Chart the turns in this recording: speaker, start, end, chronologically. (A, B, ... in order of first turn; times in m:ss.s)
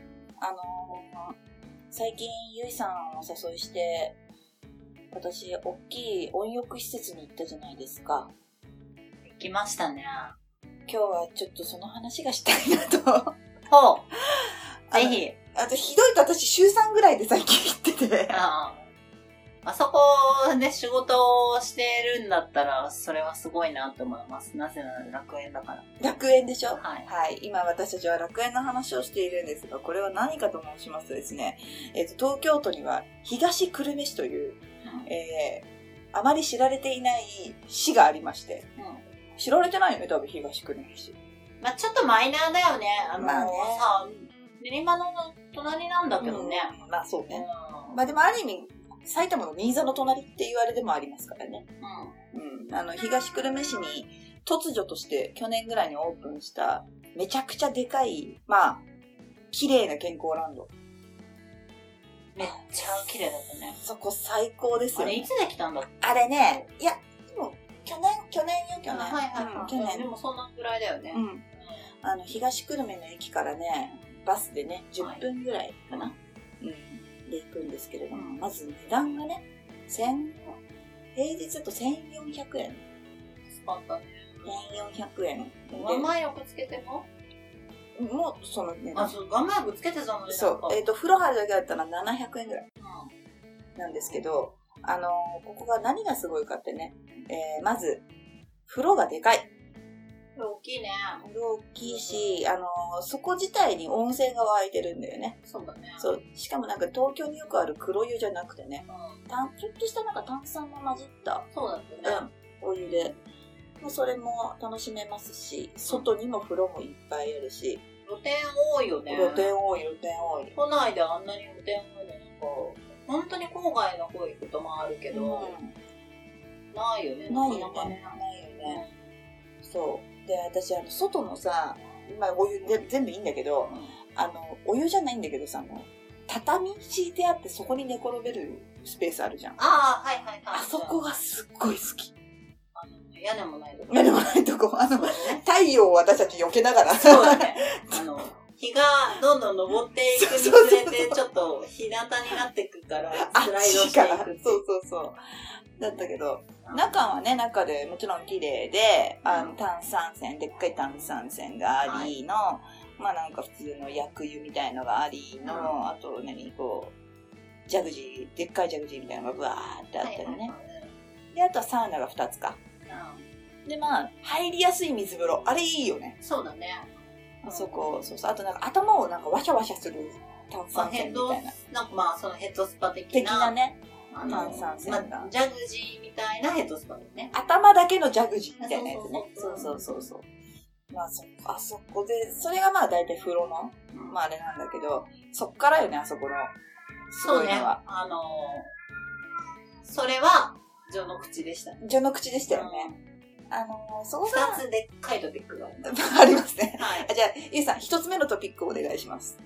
0:00.4-0:01.3 A
0:01.9-0:04.2 A
0:05.1-0:08.3 A
0:09.2-0:10.3 B
0:10.9-0:13.4 A
0:13.7-0:14.0 B
0:14.4-0:18.4 A
0:14.9-0:15.4 B
0:18.3-0:18.9 B
0:19.6-0:25.9 B
0:26.0-0:38.7 A
0:26.8-0:27.1 B
0:34.8-0:35.1 B
0:38.8-0:39.0 B
0:39.4-0:41.2 A
0:41.6-0:46.7 B
0:43.2-0:43.9 A
0:46.2-0:51.7 A
0:47.3-0:48.0 B
0:51.8-0:52.2 B
0:52.3-0:58.8 A
0:59.5-1:00.7 A
1:02.3-1:03.8 B
1:03.7-1:05.3 A
1:04.9-1:06.6 B
1:06.0-1:10.1 A
1:08.9-1:11.2 B
1:11.1-1:11.4 A
1:12.0-1:20.6 A
1:18.1-1:18.4 B
1:21.1-1:22.8 A
1:23.4-1:24.6 B
1:24.4-1:26.1 A
1:25.7-1:27.1 B
1:28.0-1:29.1 A
1:28.9-1:30.8 B
1:30.3-1:32.7 A
1:32.8-1:33.1 B
1:33.8-1:38.0 A
1:38.7-1:39.5 A
1:40.3-1:41.2 B
1:41.2-1:45.4 A
1:41.8-1:42.4 B
1:45.4-1:46.1 B
1:46.0-1:51.5 A
1:48.9-1:49.2 B
1:51.5-1:52.2 B
1:52.0-1:53.2 A
1:52.8-1:53.2 B
1:53.8-1:57.8 A
1:58.0-1:59.5 B
1:59.1-2:00.5 A
2:00.5-2:05.5 B
2:05.1-2:05.7 A
2:06.7-2:09.1 B
2:07.3-2:08.8 A
2:09.6-2:19.6 A
2:13.7-2:13.9 B
2:19.6-2:21.0 B
2:20.5-2:22.1 A
2:22.7-2:24.2 B
2:23.9-2:28.0 A
2:24.8-2:25.4 B
2:26.9-2:34.6 B
2:30.1-2:31.2 A
2:33.2-2:35.2 A
2:35.8-2:46.9 A
2:36.6-2:37.0 B
2:39.2-2:39.6 B
2:41.8-2:42.1 B
2:45.4-2:45.8 B
2:47.7-2:50.5 A
2:50.0-2:50.9 B
2:51.3-2:52.6 A
2:52.9-2:53.3 B
2:53.6-2:56.2 A
2:56.2-2:56.9 B
2:57.4-3:01.6 A
2:57.4-2:58.0 B
3:00.7-3:03.6 B
3:03.1-3:05.3 A
3:04.1-3:07.3 B
3:07.3-3:10.3 A
3:08.6-3:10.0 B
3:10.9-3:16.5 A
3:13.9-3:14.2 B
3:17.1-3:17.8 A
3:17.2-3:18.7 B
3:19.8-3:21.8 B
3:21.8-3:22.9 A
3:22.5-3:23.0 B
3:23.5-3:24.6 A
3:24.2-3:25.9 B
3:25.8-3:29.4 A
3:26.8-3:27.1 B